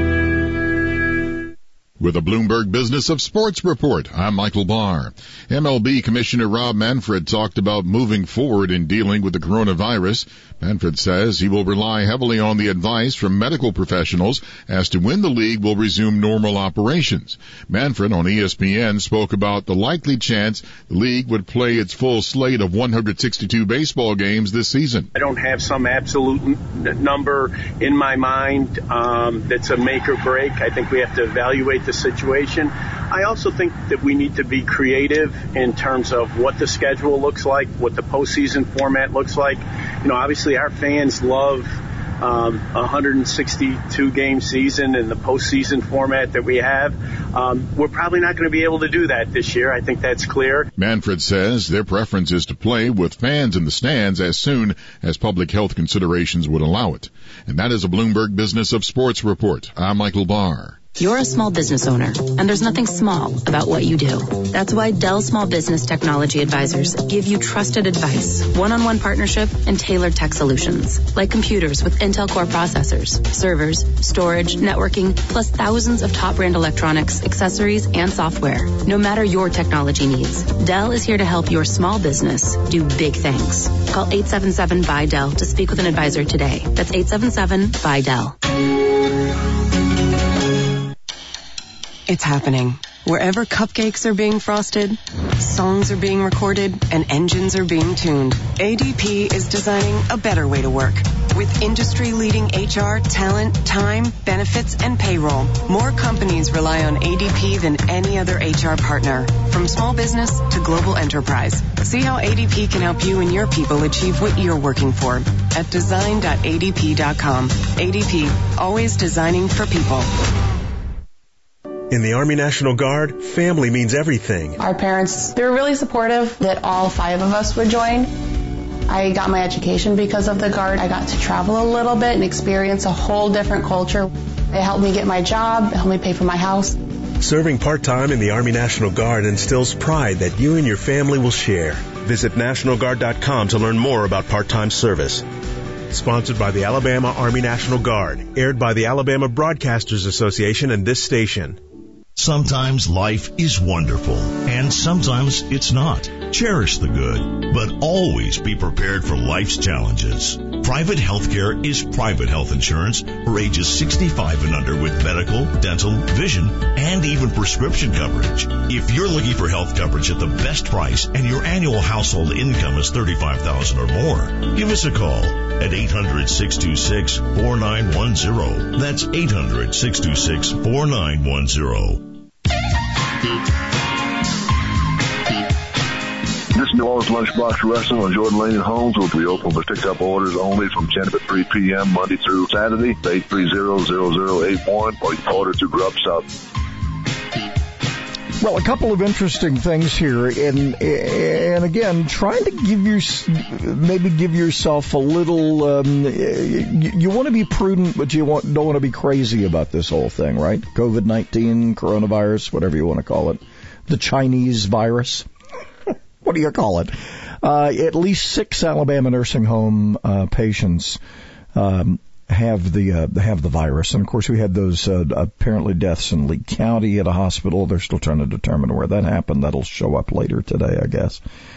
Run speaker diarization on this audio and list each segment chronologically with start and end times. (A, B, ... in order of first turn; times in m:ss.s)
0:02.0-0:25.1 A
0:25.2-0:50.7 B
0:50.8-1:00.8 A
1:01.0-1:28.4 C
1:32.1-2:00.1 D
2:01.9-2:04.6 E
2:04.6-2:08.1 F
2:08.9-2:16.8 F
2:17.2-2:25.2 E
2:25.9-2:31.6 E
2:32.2-3:02.1 G
3:06.5-3:16.3 H
3:18.4-3:35.3 I
3:36.2-3:41.0 I
3:41.6-3:51.2 I